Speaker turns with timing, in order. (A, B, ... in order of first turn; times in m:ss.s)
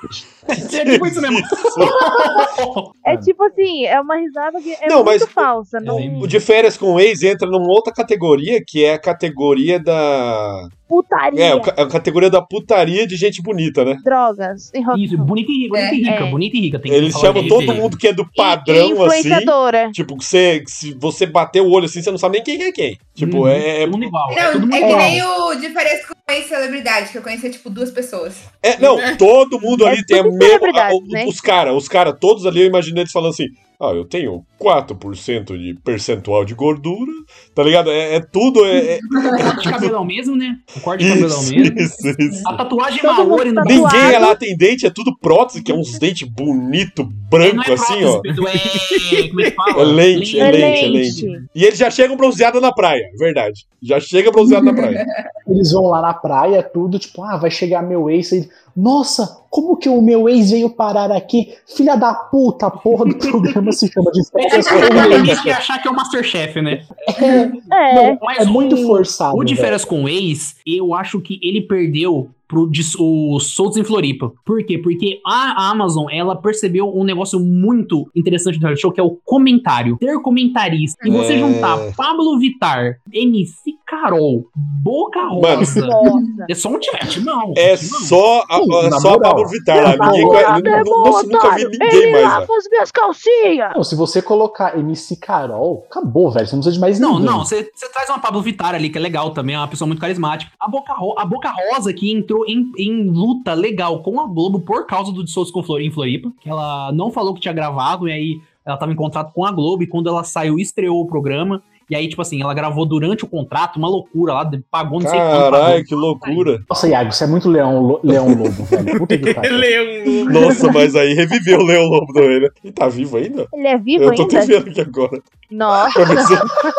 0:00.5-0:02.9 A
0:00.5-0:02.0 B
0:03.0-0:06.3 C
0:03.0-0:03.3 D
0:04.8-0:10.7 B
0:05.8-0:06.4 A
0:10.9-0:11.7 C
0:11.3-0:14.0 B
0:14.0-0:15.3 C
0:14.9-0:17.9 A
0:15.7-0:16.0 E
0:16.0-0:16.4 C
0:16.9-0:24.2 B
0:17.2-0:17.9 F
0:18.4-0:19.9 C
0:23.2-0:25.2 A
0:24.3-0:28.5 E
0:24.8-0:25.1 C
0:28.6-0:39.9 B
0:28.8-0:29.2 F
0:29.8-0:31.3 C
0:39.0-0:39.6 E
0:39.5-0:41.8 A
0:41.0-0:42.6 B
0:42.4-0:44.3 A
0:43.0-0:44.4 C
0:43.6-0:48.2 B
0:47.4-0:51.4 A
0:48.5-0:49.9 F
0:49.7-0:55.0 B
0:50.4-0:51.4 C
0:54.4-0:55.2 E
0:55.4-1:05.6 D
1:03.1-1:03.5 A
1:04.4-1:07.0 A
1:04.7-1:05.2 E
1:07.1-1:07.5 D
1:07.2-1:07.5 E
1:07.7-1:08.2 C
1:07.9-1:28.2 A
1:08.3-1:09.9 D
1:21.1-1:22.0 B
1:25.4-1:25.9 B
1:25.4-1:26.5 C
1:26.1-1:26.4 E
1:27.6-1:32.5 B
1:28.5-1:30.8 D
1:29.8-1:33.8 C
1:33.7-1:37.5 D
1:37.0-1:56.5 A
1:55.0-1:56.6 B
1:56.7-1:59.8 D
1:58.1-1:58.8 B
1:59.1-2:00.6 F
2:00.3-2:06.6 B
2:03.5-2:04.6 C
2:05.5-2:06.4 C